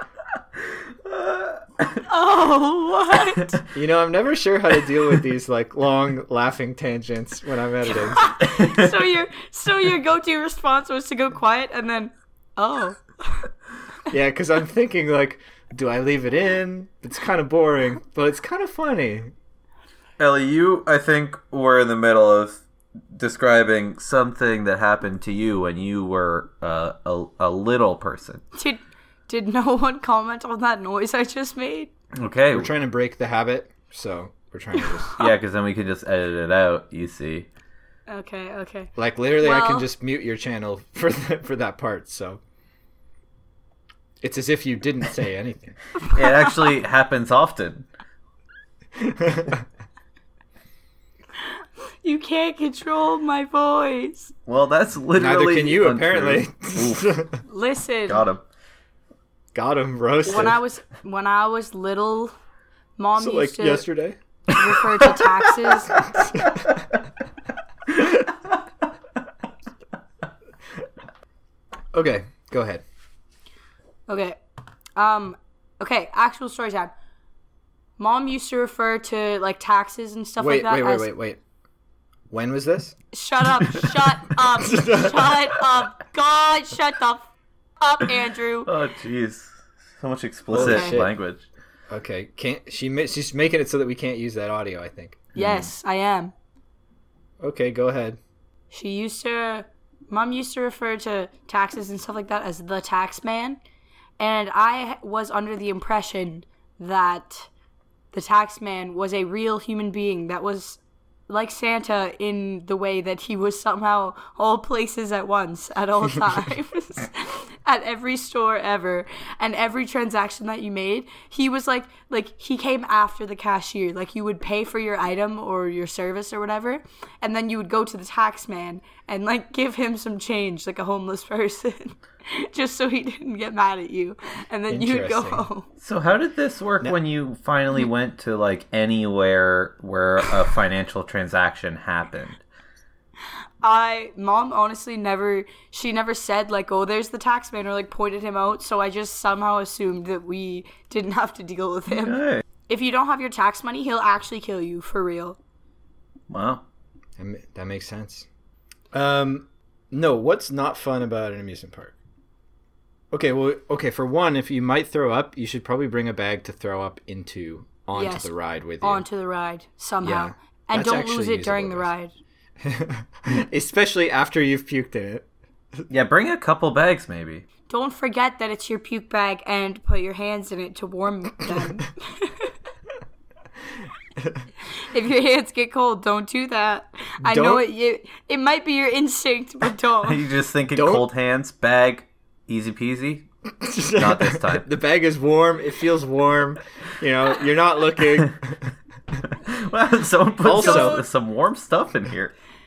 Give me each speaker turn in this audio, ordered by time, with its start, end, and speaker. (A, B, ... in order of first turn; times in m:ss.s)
0:01.2-0:01.9 A
0:02.0-0:03.6 B
0:03.7-0:08.3 C
0:08.0-0:13.5 B
0:08.4-0:08.9 A
0:14.1-0:19.3 C
0:20.2-0:28.4 A
0:28.5-0:31.9 B
0:32.1-0:32.7 A
0:32.5-0:35.1 C
0:35.2-0:37.5 A
0:38.1-0:39.9 B
0:39.0-0:42.4 C
0:44.2-0:45.8 C
0:46.1-0:47.9 A
0:49.0-0:49.6 C
0:52.0-0:54.3 B
0:54.4-0:57.2 A
0:55.1-0:57.4 C
0:57.5-0:58.2 B
0:58.1-0:58.4 A
0:59.5-1:00.6 C
1:00.2-1:02.3 B
1:03.0-1:03.8 B
1:03.2-1:04.2 C
1:04.5-1:06.0 B
1:05.0-1:05.7 A
1:06.2-1:06.6 C
1:11.9-1:12.8 C
1:14.1-1:14.4 B
1:15.0-1:16.9 B
1:18.0-1:21.1 B
1:20.4-1:21.4 C
1:22.3-1:22.9 C
1:23.1-1:28.7 B
1:24.6-1:25.4 C
1:28.6-1:31.4 A
1:30.5-1:31.1 C
1:30.6-1:31.0 B
1:31.9-1:35.3 C
1:35.4-1:35.7 A
1:35.4-1:36.3 B
1:37.4-1:38.2 C
1:38.7-1:43.6 B
1:44.2-1:47.5 B
1:48.1-2:15.7 B
2:14.7-2:15.4 C
2:15.8-2:22.4 A
2:23.6-2:35.4 B
2:31.9-2:32.4 A
2:36.3-2:36.6 A
2:37.2-2:38.3 C
2:38.9-2:41.9 C
2:43.1-2:49.0 C
2:47.9-2:52.1 B
2:50.0-2:51.9 C
2:52.6-2:55.2 C
2:55.9-2:57.4 A
2:57.7-3:02.5 B
3:04.8-3:10.2 B
3:07.2-3:07.6 C
3:10.0-3:13.3 A
3:10.7-3:11.0 C
3:13.6-3:18.6 C
3:13.9-3:14.7 A
3:19.3-3:22.3 A
3:20.4-3:21.0 C
3:20.5-3:21.0 B